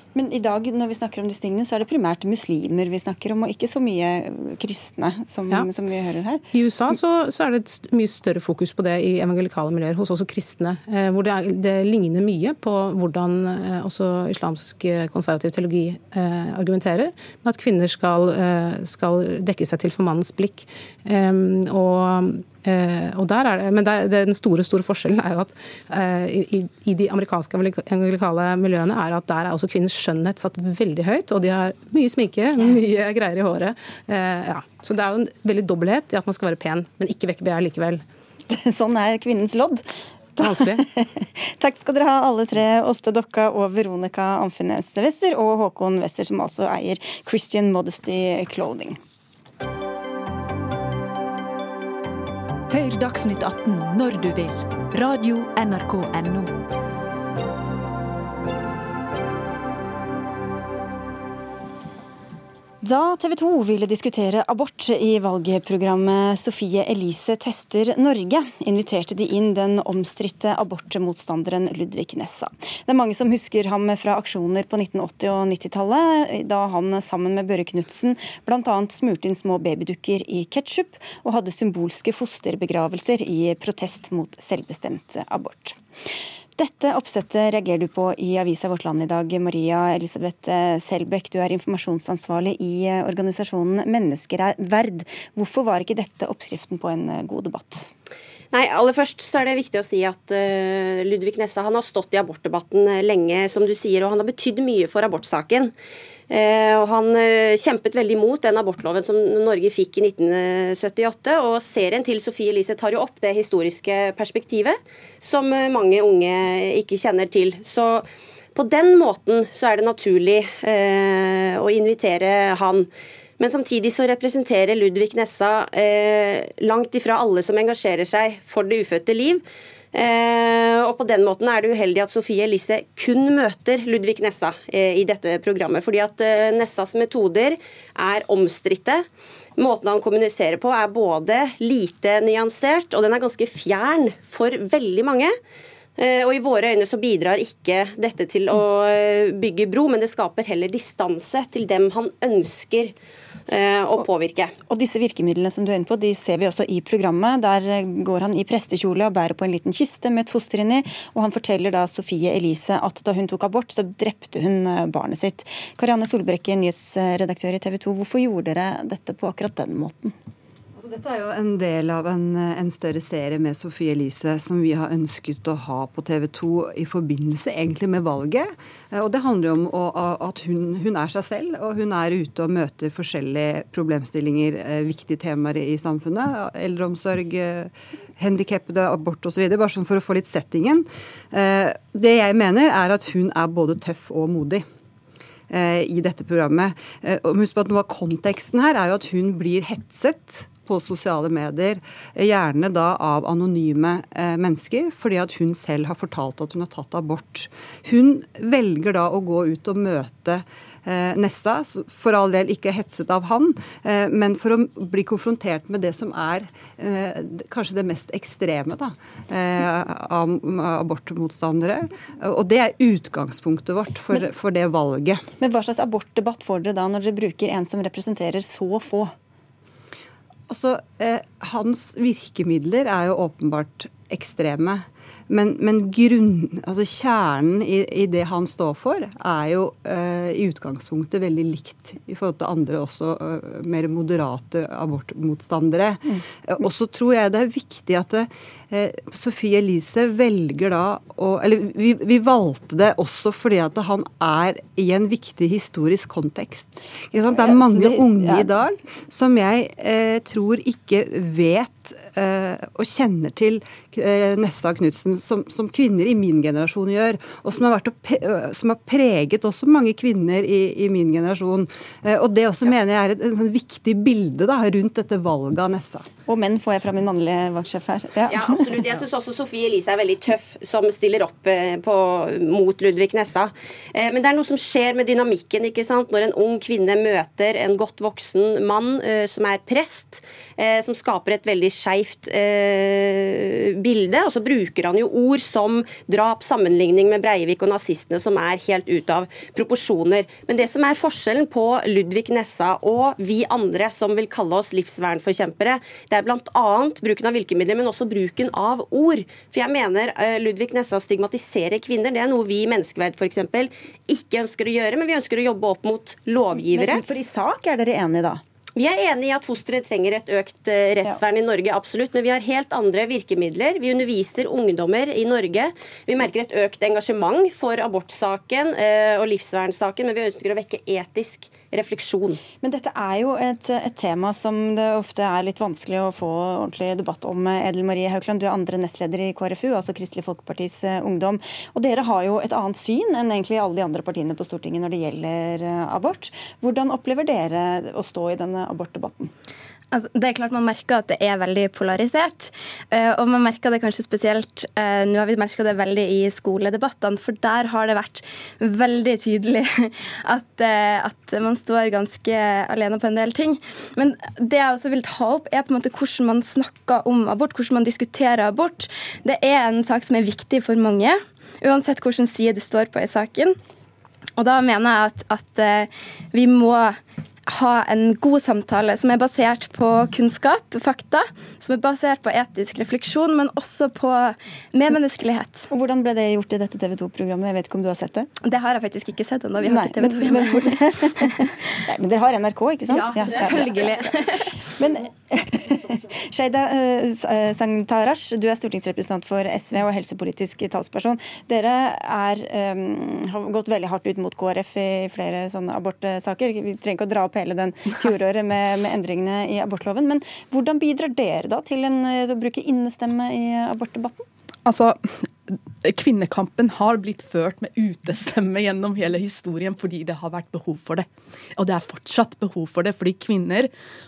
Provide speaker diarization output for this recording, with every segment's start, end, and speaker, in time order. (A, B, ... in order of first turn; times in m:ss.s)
0:00.2-0:06.4 A
0:06.5-0:38.0 B
0:38.5-0:39.8 A
0:40.4-0:49.0 A
0:40.4-0:40.8 B
0:52.7-0:56.6 C
1:02.8-1:25.8 A
1:26.6-1:37.9 A
1:38.5-1:45.7 D
1:46.3-2:19.1 D
2:19.6-2:25.3 D
2:26.0-2:32.9 D
2:33.5-2:34.6 D
2:34.7-2:50.2 A
2:50.8-3:14.6 E
3:15.5-3:45.2 E
3:45.4-3:49.1 A
3:50.5-4:36.1 E
4:06.1-4:06.6 A
4:17.3-4:18.6 A
4:36.3-4:38.6 A
4:38.3-5:17.0 D
5:16.7-5:18.4 A
5:18.8-5:32.4 D
5:32.6-5:49.3 A
5:49.9-6:13.6 F
6:14.4-6:25.7 F
6:25.7-6:28.3 A
6:28.4-6:31.3 F
6:29.6-6:34.1 A
6:32.9-6:34.6 F
6:34.6-6:54.3 A
6:54.7-7:03.7 G